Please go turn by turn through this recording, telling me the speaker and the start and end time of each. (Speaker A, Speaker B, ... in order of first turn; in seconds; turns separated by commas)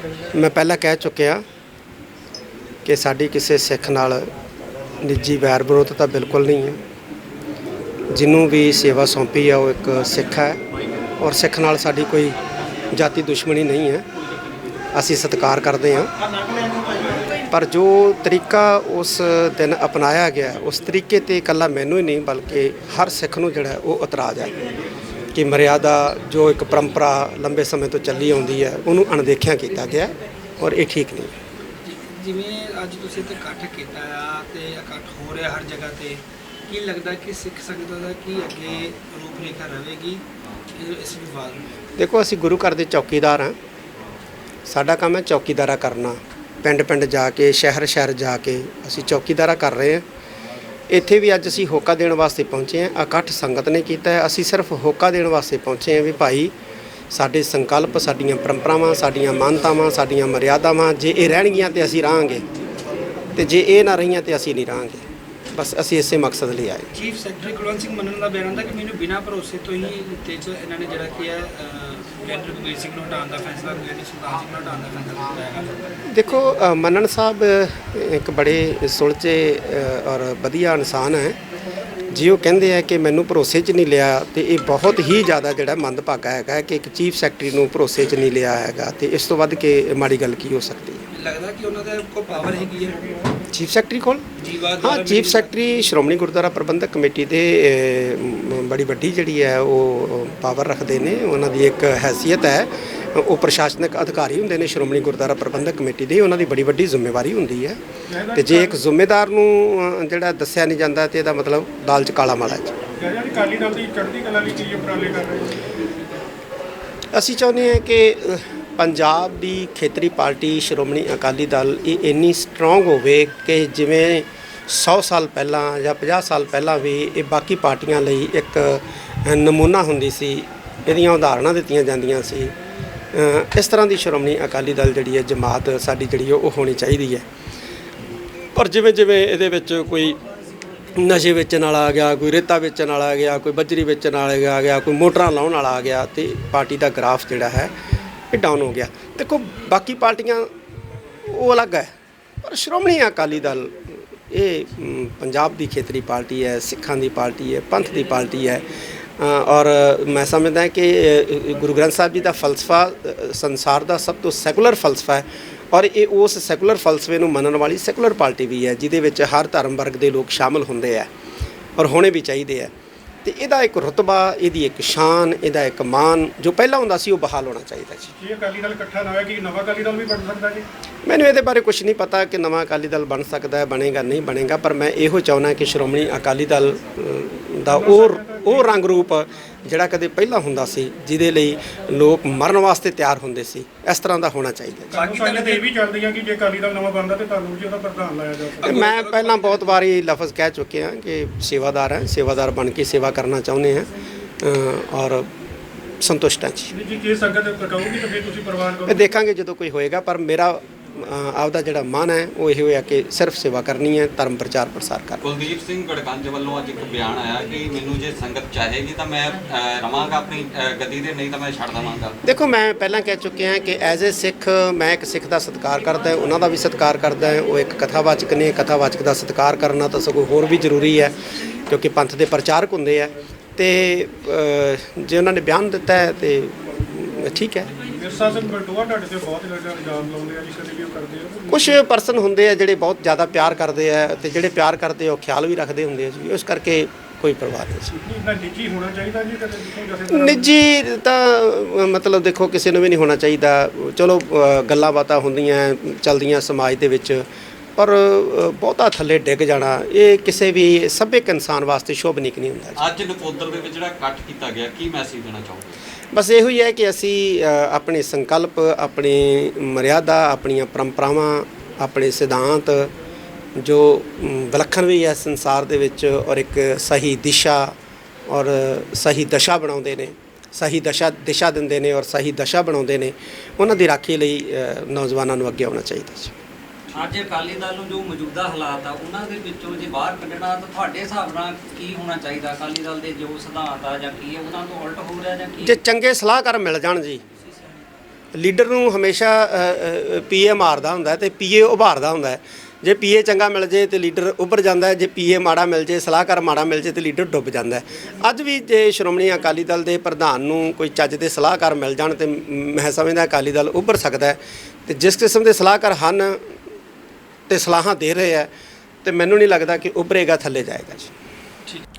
Speaker A: 0.3-1.4, Speaker A: 2.9-4.3, Speaker A: 5.0-6.8, Speaker A: 8.1-10.6, Speaker A: 11.2-12.4, Speaker A: 12.9-14.1, Speaker A: 14.9-16.1, Speaker A: 17.5-24.5, Speaker A: 25.3-31.3, Speaker B: 31.8-40.2, Speaker B: 40.8-41.7, Speaker A: 42.0-43.6, Speaker A: 44.7-50.0, Speaker A: 50.9-56.5, Speaker A: 57.1-62.5, Speaker A: 63.4-66.9, Speaker B: 66.9-76.0, Speaker A: 76.1-81.4, Speaker A: 82.1-91.0, Speaker B: 91.1-93.1, Speaker A: 93.5-94.3, Speaker B: 94.4-95.5, Speaker A: 94.8-107.8, Speaker C: 108.1-108.8, Speaker A: 108.3-112.8, Speaker C: 113.0-115.6, Speaker A: 117.1-132.5, Speaker A: 133.1-137.2, Speaker A: 138.5-140.2, Speaker A: 140.9-147.7, Speaker A: 148.3-150.5, Speaker A: 151.2-151.9, Speaker A: 152.4-171.1, Speaker A: 171.8-172.7, Speaker A: 173.2-178.1, Speaker C: 178.1-180.7, Speaker A: 181.1-195.0, Speaker C: 187.7-188.8, Speaker C: 194.9-198.8, Speaker B: 195.0-195.7, Speaker A: 198.6-203.9, Speaker B: 198.8-199.7, Speaker A: 204.4-205.3, Speaker A: 206.0-206.7, Speaker C: 206.7-209.1, Speaker A: 208.9-215.2, Speaker D: 215.2-222.2, Speaker A: 222.2-237.7, Speaker C: 237.8-241.7, Speaker A: 241.5-247.9, Speaker C: 248.0-250.5, Speaker A: 250.1-257.2, Speaker A: 257.8-262.8, Speaker D: 262.8-265.8, Speaker A: 266.1-272.9, Speaker A: 273.6-277.7, Speaker A: 278.3-286.3, Speaker E: 286.9-295.8, Speaker A: 295.6-297.2, Speaker A: 298.3-316.4, Speaker A: 317.5-318.5, Speaker A: 319.0-321.1